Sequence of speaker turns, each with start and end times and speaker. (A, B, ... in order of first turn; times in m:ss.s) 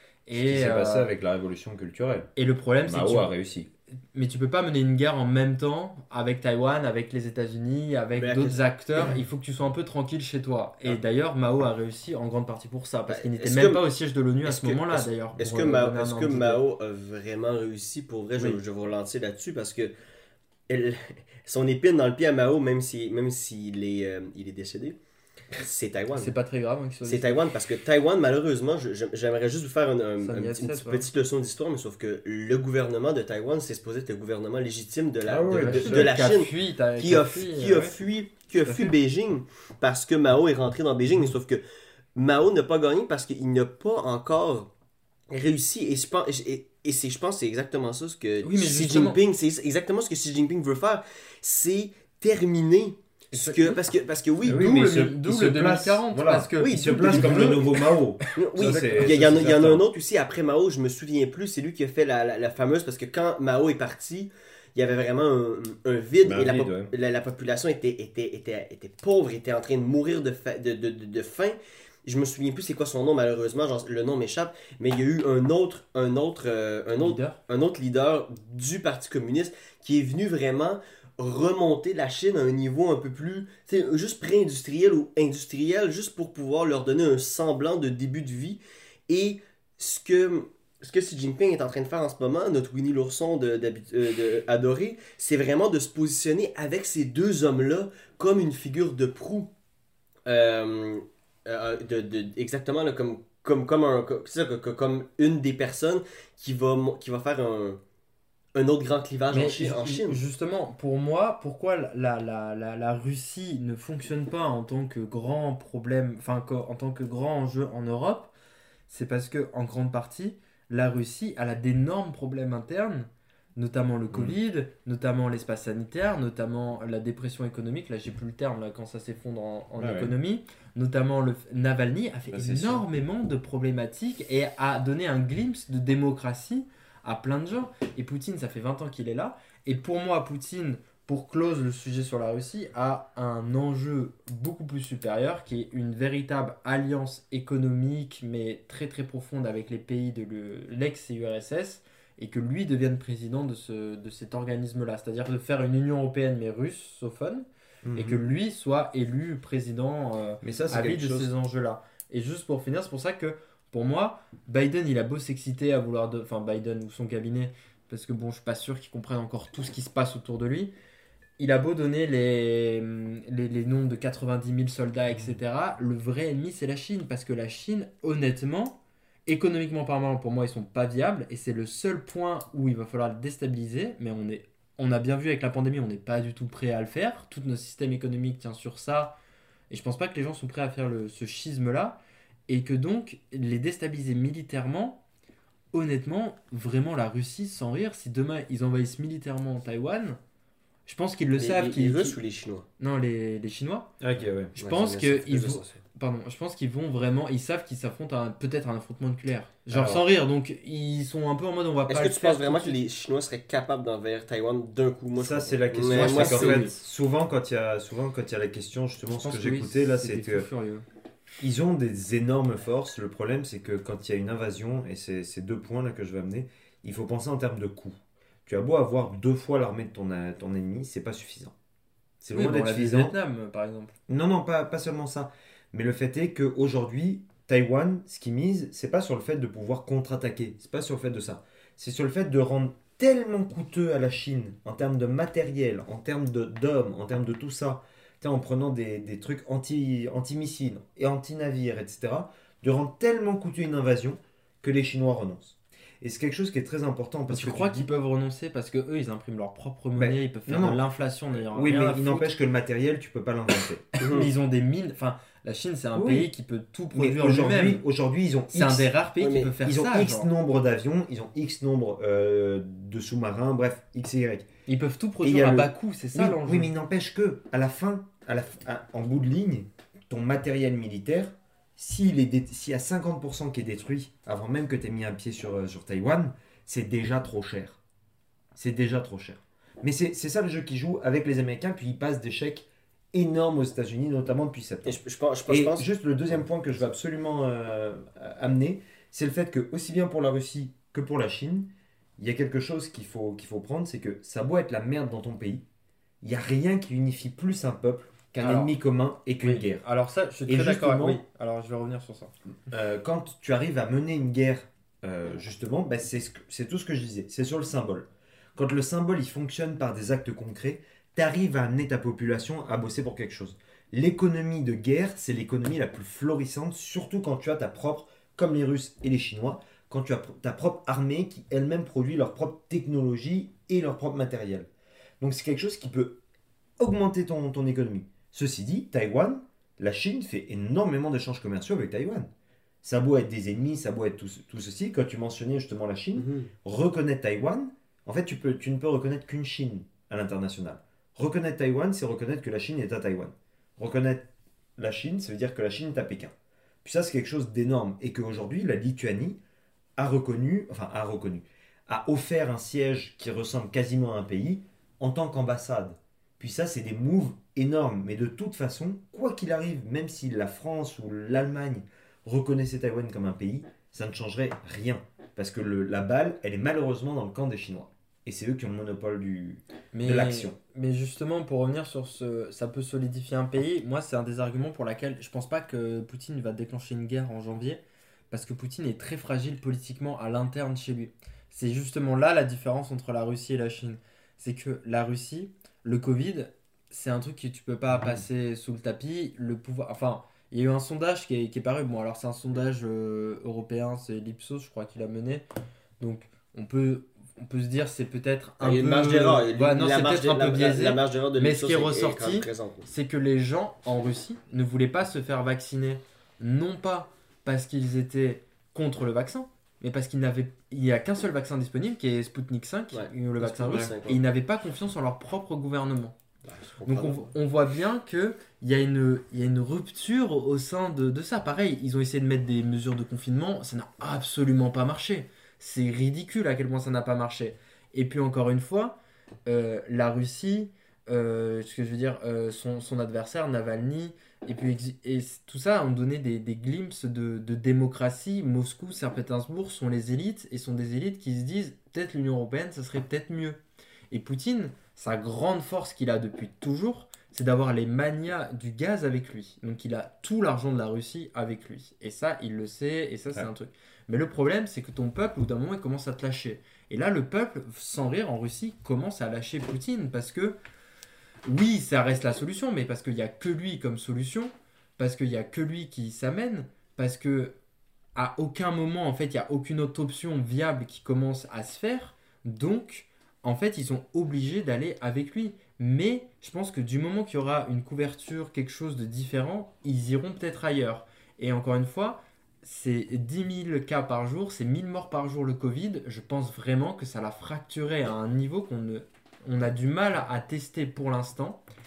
0:00.3-0:01.1 A
0:00.3-0:02.3 B
0:02.4-0:03.3 A
0:02.8-0:03.7 B
0:04.1-0:16.6 A
0:08.2-0:09.2 C
0:13.1-0:13.8 C
0:14.4-0:19.9 C
0:20.7-0:25.0 C
0:25.6-0:26.3 C
0:26.1-0:27.4 A
0:27.0-0:41.6 C
0:30.2-0:31.1 A
0:35.3-0:36.1 B
0:35.5-0:38.0 A
0:38.7-0:39.0 A
0:42.2-0:44.7 C
0:45.3-0:54.7 C
0:48.4-0:49.2 A
0:53.3-0:53.8 A
0:54.4-0:59.8 B
0:54.5-0:57.8 A
0:56.6-0:57.7 C
0:58.3-0:59.8 A
0:58.3-1:39.5 C
1:06.2-1:06.9 B
1:17.0-1:17.4 A
1:40.3-1:47.8 C
1:48.6-1:50.2 C
1:49.3-1:58.3 A
1:58.9-2:50.7 A
2:04.1-2:04.4 B
2:09.8-2:10.1 B
2:12.3-2:12.8 B
2:37.8-2:38.2 B
2:40.4-2:41.3 B
2:51.4-3:09.2 A
3:09.7-3:15.0 A
3:15.7-3:20.2 A
3:20.9-3:22.2 A
3:21.4-3:22.7 C
3:22.8-3:23.9 A
3:24.0-3:24.5 B
3:24.6-3:32.8 A
3:24.6-3:25.8 C
3:29.7-3:30.0 B
3:31.9-3:36.7 C
3:35.2-3:40.5 B
3:35.8-3:36.7 A
3:39.2-3:40.8 A
3:41.4-3:51.5 B
3:52.2-3:53.2 B
3:52.3-3:54.0 A
3:54.1-4:17.9 B
4:17.3-4:22.3 A
4:20.0-4:20.8 B
4:21.5-4:23.9 B
4:24.0-4:24.3 C
4:24.1-4:27.8 A
4:26.0-4:26.3 B
4:26.9-4:28.9 B
4:28.5-4:30.3 A
4:29.2-4:29.5 C
4:29.6-4:34.5 B
4:34.7-4:36.7 A
4:35.2-4:47.8 B
4:48.6-5:05.6 B
4:54.8-4:55.9 C
5:06.2-5:09.8 B
5:08.3-5:08.7 A
5:09.4-5:12.3 A
5:10.5-5:11.2 B
5:12.7-5:34.7 B
5:35.2-5:36.2 B
5:36.8-5:42.3 B
5:42.8-5:59.4 B
5:46.2-5:46.5 C
6:00.0-6:20.6 B
6:19.9-6:45.4 A
6:46.0-7:06.2 A
6:48.6-6:52.9 C
7:02.9-7:04.2 C
7:06.5-7:07.3 C
7:06.9-7:33.6 A
7:34.1-7:50.6 A
7:51.5-7:57.5 A
7:58.2-8:21.6 A